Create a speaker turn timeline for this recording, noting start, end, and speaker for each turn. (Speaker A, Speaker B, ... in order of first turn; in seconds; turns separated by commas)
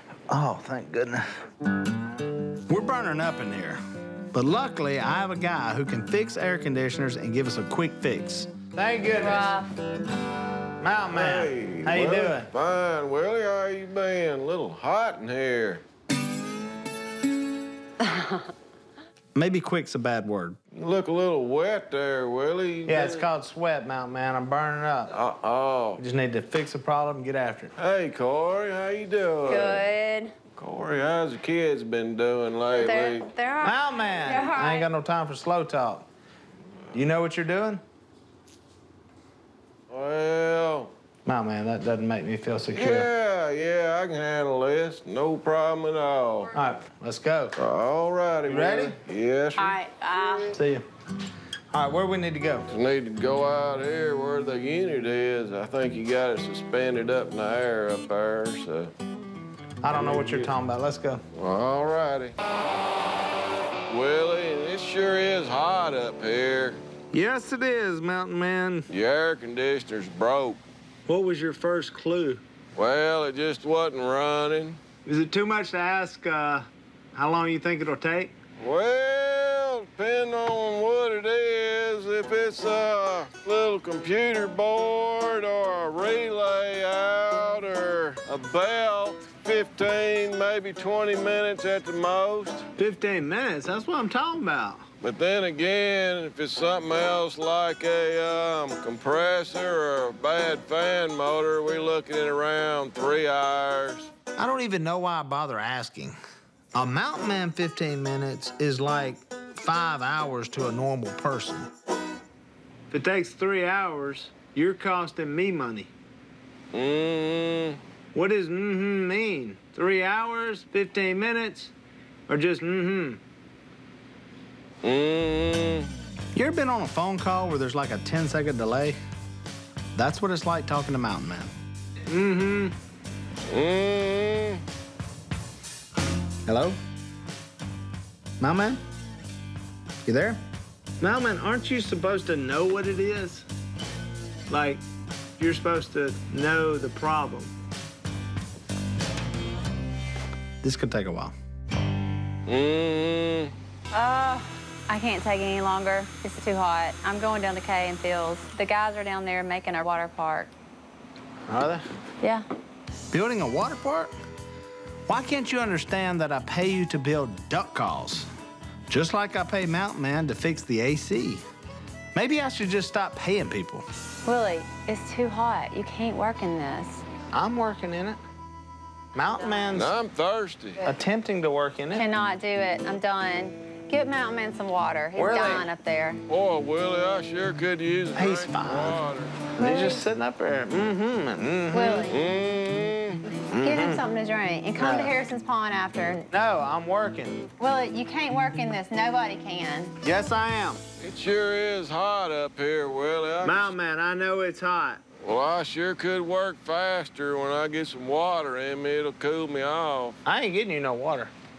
Speaker A: 0.3-1.3, Speaker A: 2.7-3.8, Speaker A: 4.3-9.6, Speaker B: 9.1-9.7, Speaker A: 10.8-12.5, Speaker C: 11.1-15.8, Speaker B: 18.0-18.4, Speaker A: 19.3-20.6, Speaker C: 20.7-23.3, Speaker A: 22.9-25.1, Speaker C: 25.1-26.0, Speaker A: 26.0-27.7, Speaker C: 27.8-29.9, Speaker B: 29.5-30.3, Speaker C: 30.6-33.3, Speaker B: 32.7-34.9, Speaker A: 33.6-36.0, Speaker A: 36.9-37.8, Speaker C: 39.9-40.9, Speaker A: 41.2-43.1, Speaker C: 42.7-46.5, Speaker A: 46.5-47.5, Speaker C: 47.6-49.8, Speaker A: 48.5-49.0, Speaker B: 49.6-50.6, Speaker A: 50.5-50.8, Speaker A: 51.7-52.7, Speaker C: 52.7-58.9, Speaker A: 59.8-61.2, Speaker C: 59.9-60.5, Speaker C: 61.3-62.3, Speaker C: 63.9-66.8, Speaker A: 67.1-68.9, Speaker C: 68.9-70.6, Speaker A: 71.0-72.4, Speaker C: 72.8-74.8, Speaker A: 75.0-78.3, Speaker C: 78.6-92.7, Speaker A: 92.8-94.8, Speaker C: 95.0-104.1, Speaker A: 104.3-106.2, Speaker A: 106.7-111.7, Speaker A: 112.9-115.9, Speaker C: 116.7-117.8, Speaker A: 118.1-121.7, Speaker A: 122.3-123.2, Speaker C: 124.8-125.9, Speaker A: 126.3-129.0, Speaker A: 129.9-131.5, Speaker A: 132.1-132.7, Speaker C: 133.5-134.6, Speaker A: 136.4-136.8, Speaker A: 138.4-138.8, Speaker A: 140.0-140.4, Speaker A: 141.0-143.5, Speaker A: 144.5-144.8, Speaker A: 145.4-147.5, Speaker A: 150.6-151.3, Speaker C: 152.5-153.5, Speaker B: 153.9-160.5, Speaker A: 161.5-161.8, Speaker A: 163.1-164.1, Speaker A: 165.1-168.3, Speaker A: 168.9-171.4, Speaker A: 172.1-173.8, Speaker B: 174.2-177.0, Speaker A: 177.3-178.2, Speaker A: 179.1-179.9, Speaker C: 179.7-180.8, Speaker A: 180.8-182.1, Speaker B: 181.9-186.2, Speaker A: 185.2-185.7, Speaker C: 186.3-189.4, Speaker A: 188.1-189.0, Speaker A: 189.6-192.1, Speaker B: 189.6-190.0, Speaker B: 191.7-192.2, Speaker C: 192.1-193.2, Speaker A: 193.5-194.0, Speaker B: 193.5-196.3, Speaker A: 194.8-195.2, Speaker A: 196.3-197.5, Speaker B: 197.6-199.9, Speaker A: 200.0-200.8, Speaker C: 201.0-203.7, Speaker A: 203.4-205.0, Speaker C: 205.2-210.2, Speaker A: 210.2-211.3